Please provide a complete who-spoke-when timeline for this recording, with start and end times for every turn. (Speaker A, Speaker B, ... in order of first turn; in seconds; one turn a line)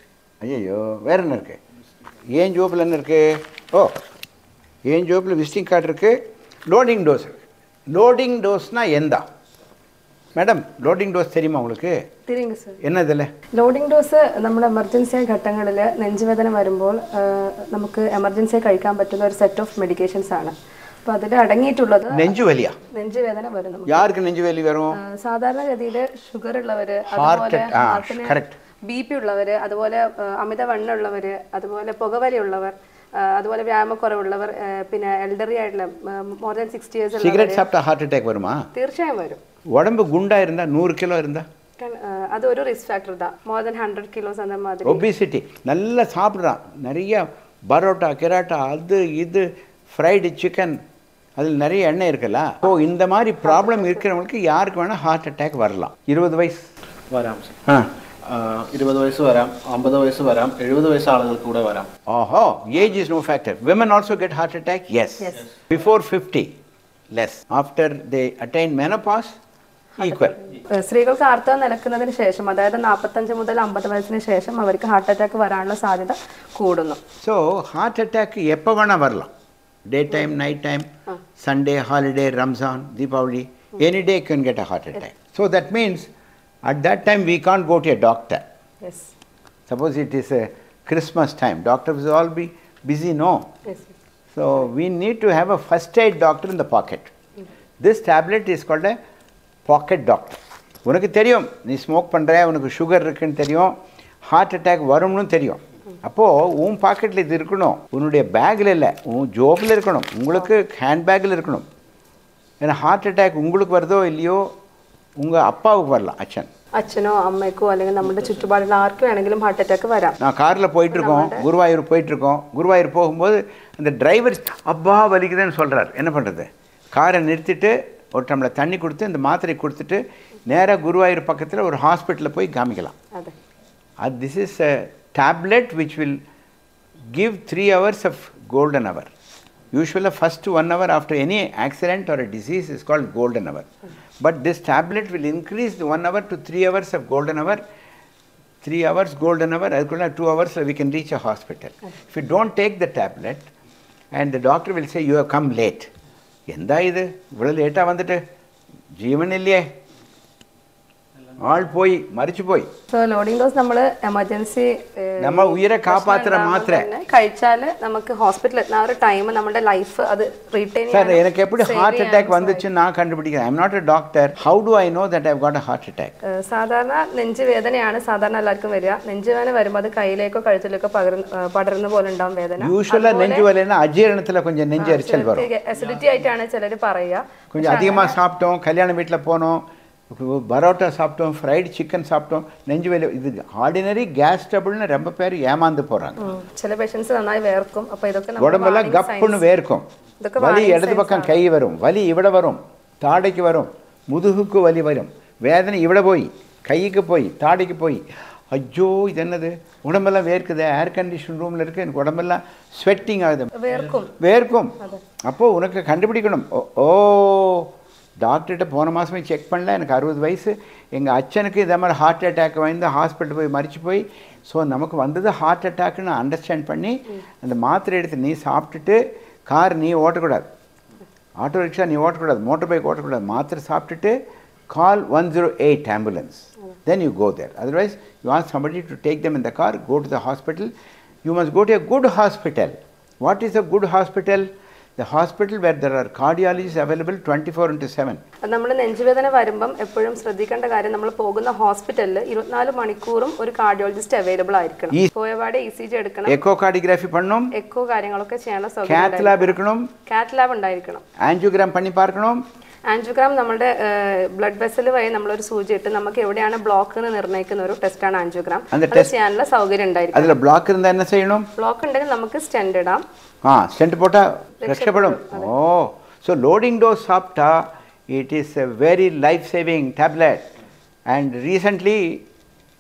Speaker A: 0.4-1.6
Speaker A: 2.3-4.0
Speaker A: 4.8-9.2
Speaker A: 10.3-12.0
Speaker B: 12.3-12.8
Speaker A: 12.8-13.3
Speaker B: 13.5-22.4
Speaker A: 22.1-22.8
Speaker B: 22.9-24.1
Speaker A: 23.9-25.0
Speaker B: 24.9-37.7
Speaker A: 27.1-28.6
Speaker A: 37.2-38.7
Speaker B: 38.7-39.4
Speaker A: 39.7-41.5
Speaker B: 41.8-45.0
Speaker A: 44.9-50.8
Speaker A: 51.4-56.7
Speaker B: 53.5-54.0
Speaker C: 57.1-57.6
Speaker C: 58.2-61.9
Speaker A: 62.1-66.5
Speaker A: 67.1-69.4
Speaker B: 70.0-77.0
Speaker A: 70.0-70.4
Speaker A: 77.2-79.3
Speaker A: 79.9-80.9
Speaker A: 81.4-86.1
Speaker A: 86.6-88.4
Speaker B: 88.8-89.1
Speaker A: 89.7-93.5
Speaker B: 93.7-93.9
Speaker A: 94.3-97.1
Speaker A: 97.8-99.0
Speaker A: 99.7-103.7
Speaker A: 104.3-111.7
Speaker A: 112.6-114.5
Speaker A: 115.2-116.5
Speaker B: 116.8-120.2
Speaker A: 120.2-132.9
Speaker B: 120.9-121.5
Speaker A: 134.0-136.2
Speaker A: 137.1-139.1
Speaker A: 139.7-143.7
Speaker A: 144.2-147.6
Speaker A: 148.6-153.5
Speaker A: 154.1-155.9
Speaker A: 156.5-158.2
Speaker A: 159.0-159.7
Speaker A: 161.4-162.7
Speaker B: 162.9-172.7
Speaker A: 165.2-166.9
Speaker A: 170.9-176.2
Speaker B: 176.2-183.5
Speaker A: 182.6-185.5
Speaker B: 184.8-188.2
Speaker A: 187.5-196.2
Speaker B: 196.2-199.4
Speaker A: 198.4-199.8
Speaker B: 200.2-201.4
Speaker A: 200.4-213.5
Speaker B: 213.6-214.1
Speaker A: 214.1-230.5
Speaker A: 231.4-234.2
Speaker A: 234.7-240.7
Speaker A: 241.2-248.2
Speaker B: 248.4-256.4
Speaker A: 256.3-257.5
Speaker B: 257.5-261.0
Speaker A: 258.9-259.9
Speaker A: 261.2-262.4
Speaker B: 262.9-270.4
Speaker A: 268.7-269.1
Speaker A: 270.1-271.5
Speaker B: 271.6-273.0
Speaker A: 273.4-280.5
Speaker B: 274.6-275.5
Speaker A: 281.1-282.2